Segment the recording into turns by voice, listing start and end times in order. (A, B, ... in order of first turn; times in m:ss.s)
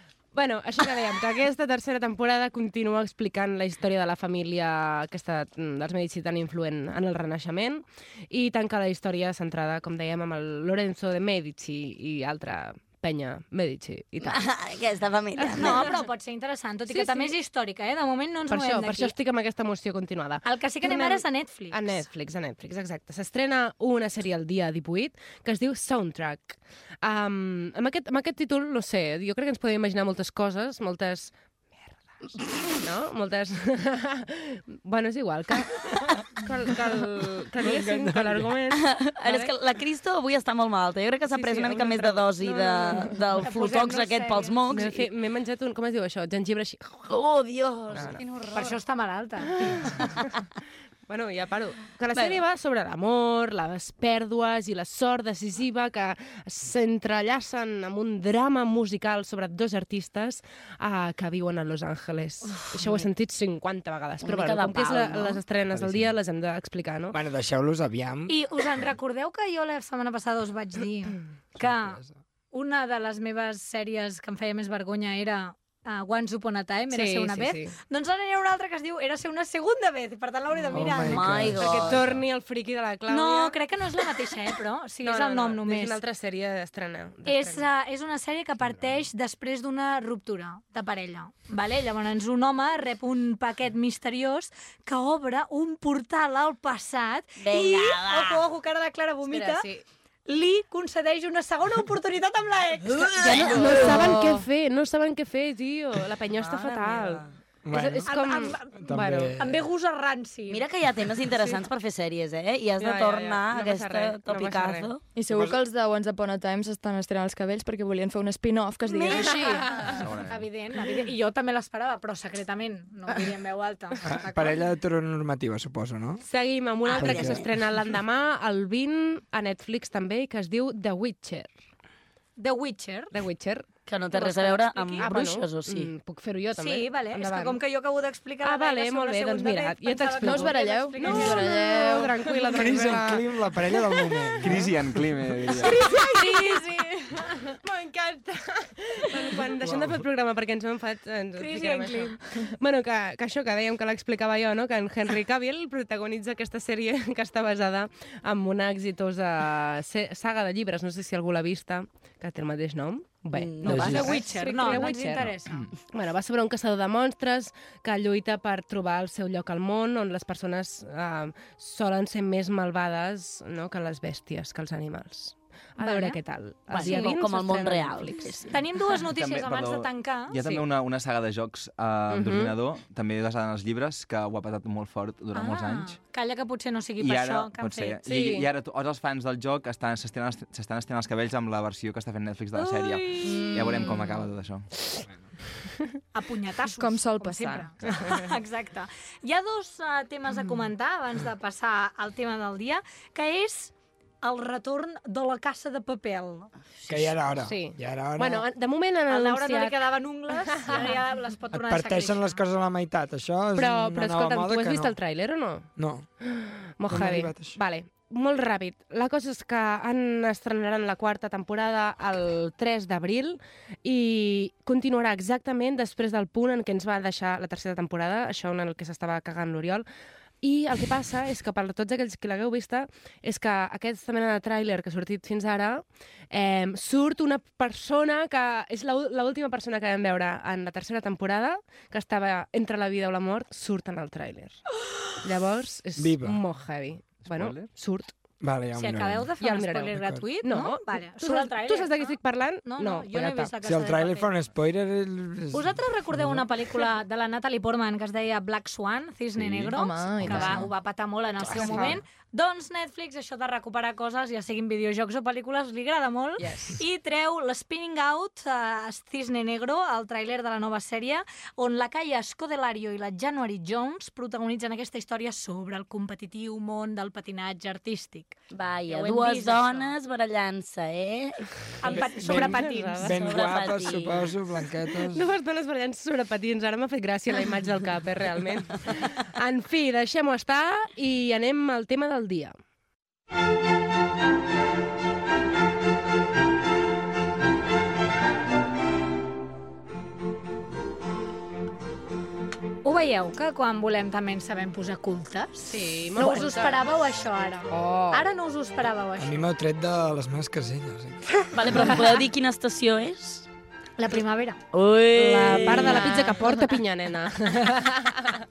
0:00.3-0:14.4 A
0:14.2-0:16.0 B
0:15.4-0:16.0 A
0:15.6-0:19.2 C
0:16.9-0:17.3 A
0:18.5-0:39.5 A
0:20.4-0:22.0 C
0:37.6-0:38.5 D
0:38.7-0:45.1 B
0:41.3-0:43.5 A
0:43.4-0:44.6 C
0:44.7-0:47.1 A
0:47.1-0:48.8 B
0:47.9-0:48.2 A
0:48.5-0:49.5 C
0:49.5-0:50.2 A
0:51.1-1:07.2 A
0:52.1-0:52.4 B
1:02.8-1:03.0 B
1:04.2-1:05.4 B
1:07.1-1:08.4 D
1:08.3-1:12.0 C
1:11.6-1:12.1 D
1:12.5-1:21.4 C
1:16.9-1:17.8 A
1:20.7-1:22.2 D
1:21.0-1:22.1 B
1:21.5-1:23.6 A
1:23.1-1:26.0 C
1:25.0-1:27.7 A
1:27.2-1:39.7 C
1:37.4-1:38.5 B
1:39.3-1:39.8 A
1:40.3-1:44.1 C
1:43.0-1:44.5 B
1:43.2-1:47.2 A
1:46.3-1:47.3 B
1:47.6-1:48.1 D
1:47.7-1:48.8 C
1:48.0-1:49.4 A
1:48.9-1:49.6 D
1:49.4-1:50.6 C
1:50.5-1:55.0 B
1:52.8-1:54.9 A
1:55.1-1:59.8 E
1:55.3-1:55.6 D
1:58.9-2:04.6 C
1:59.2-2:00.1 A
2:00.0-2:00.4 F
2:04.0-2:06.2 D
2:06.2-2:11.5 A
2:06.9-2:07.5 B
2:06.9-2:07.5 D
2:12.4-2:13.1 C
2:13.1-2:13.7 A
2:13.9-2:15.9 B
2:14.1-2:15.1 C
2:15.0-2:17.6 A
2:16.6-2:22.5 C
2:18.4-2:24.6 A
2:20.2-2:22.9 E
2:22.5-2:24.8 D
2:24.4-2:25.8 F
2:25.5-2:45.4 A
2:25.9-2:26.9 E
2:31.4-2:32.2 C
2:43.3-2:45.0 B
2:43.6-2:44.1 D
2:43.7-2:45.6 C
2:45.9-2:58.4 A
2:55.8-2:56.2 C
2:56.7-2:58.5 B
2:56.8-2:57.2 C
2:58.5-3:00.4 C
2:59.1-3:06.0 F
3:02.1-3:02.6 A
3:05.3-3:08.0 C
3:07.0-3:14.7 F
3:08.0-3:08.5 A
3:13.2-3:13.5 A
3:13.2-3:14.2 B
3:16.1-3:26.5 C
3:16.8-3:17.9 E
3:26.9-3:28.5 D
3:27.4-3:31.0 A
3:29.1-3:32.4 C
3:31.5-3:35.0 D
3:33.6-3:35.7 A
3:35.8-3:36.1 D
3:36.2-3:49.9 A
3:36.9-3:37.6 D
3:50.4-4:04.6 A
4:05.2-4:08.1 A
4:06.0-4:06.4 D
4:07.2-4:07.7 F
4:08.4-4:09.3 D
4:08.8-4:14.3 C
4:09.4-4:13.5 A
4:09.9-4:10.2 D
4:13.6-4:16.4 D
4:15.5-4:39.9 C
4:19.7-4:20.7 E
4:20.2-4:20.6 D
4:21.4-4:22.0 D
4:21.5-4:22.0 A
4:38.5-4:42.0 B
4:41.8-4:43.1 C
4:41.8-4:43.3 A
4:42.2-4:45.2 D
4:43.1-4:44.3 B
4:45.1-4:52.6 A
5:02.8-5:09.4 C
5:05.6-5:06.8 A
5:07.7-5:08.2 A
5:09.2-5:11.8 D
5:11.5-5:13.5 B
5:14.0-5:14.6 C
5:14.7-5:16.6 B
5:15.1-5:18.4 A
5:15.9-5:16.2 C